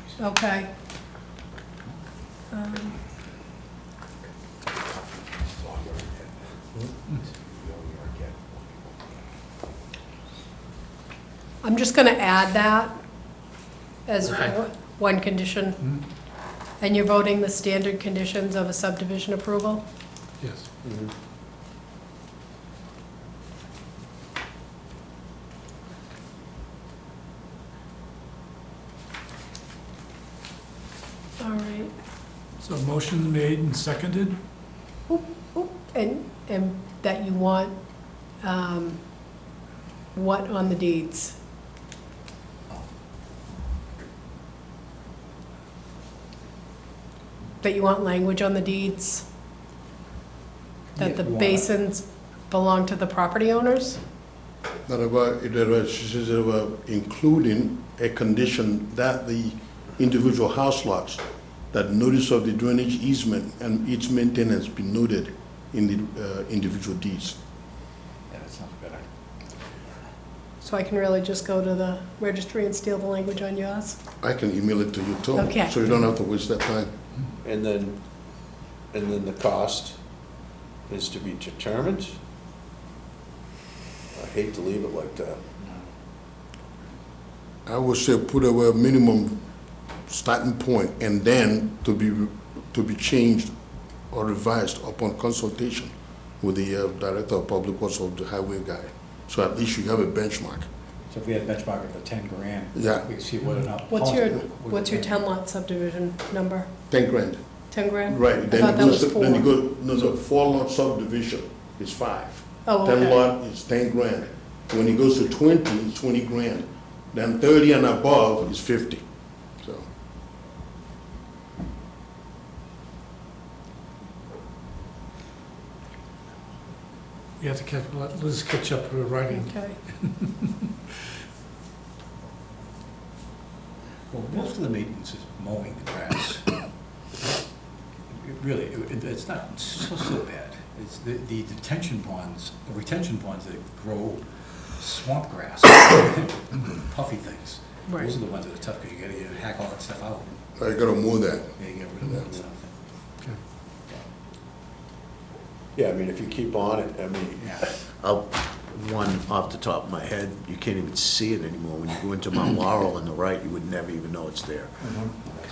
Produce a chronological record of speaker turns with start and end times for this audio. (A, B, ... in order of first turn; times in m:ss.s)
0:00.2-0:00.7 A
0:02.5-0:03.0 A
0:05.6-0:06.1 B
0:07.1-0:09.0 B
0:11.6-0:13.0 A
0:14.1-0:15.8 A
0:16.8-0:19.9 A
0:20.4-0:20.7 C
0:20.8-0:21.1 D
0:31.4-0:31.9 A
0:32.6-0:34.4 C
0:35.1-0:37.8 A
0:38.4-0:39.0 A
0:40.1-0:41.4 A
0:47.6-0:49.3 A
0:51.0-0:51.7 B
0:51.0-0:54.0 A
0:54.9-1:07.4 E
1:08.3-1:09.0 B
1:10.6-1:14.0 A
1:14.2-1:16.9 E
1:15.4-1:15.8 A
1:17.4-1:18.0 D
1:18.9-1:20.0 D
1:20.9-1:22.2 D
1:24.1-1:25.4 D
1:27.7-1:29.4 E
1:30.1-1:33.5 E
1:34.1-1:40.7 E
1:41.1-1:45.1 B
1:42.8-1:43.1 E
1:43.9-1:46.7 A
1:46.9-1:47.4 E
1:47.7-1:49.5 A
1:48.1-1:59.0 E
1:52.6-1:53.3 A
1:59.6-1:59.9 E
2:07.4-2:10.5 C
2:09.3-2:09.8 A
2:14.1-2:16.5 B
2:18.1-2:24.2 B
2:24.7-2:30.3 B
2:27.9-2:28.2 A
2:30.6-2:31.6 E
2:31.6-2:32.7 B
2:35.8-2:44.8 D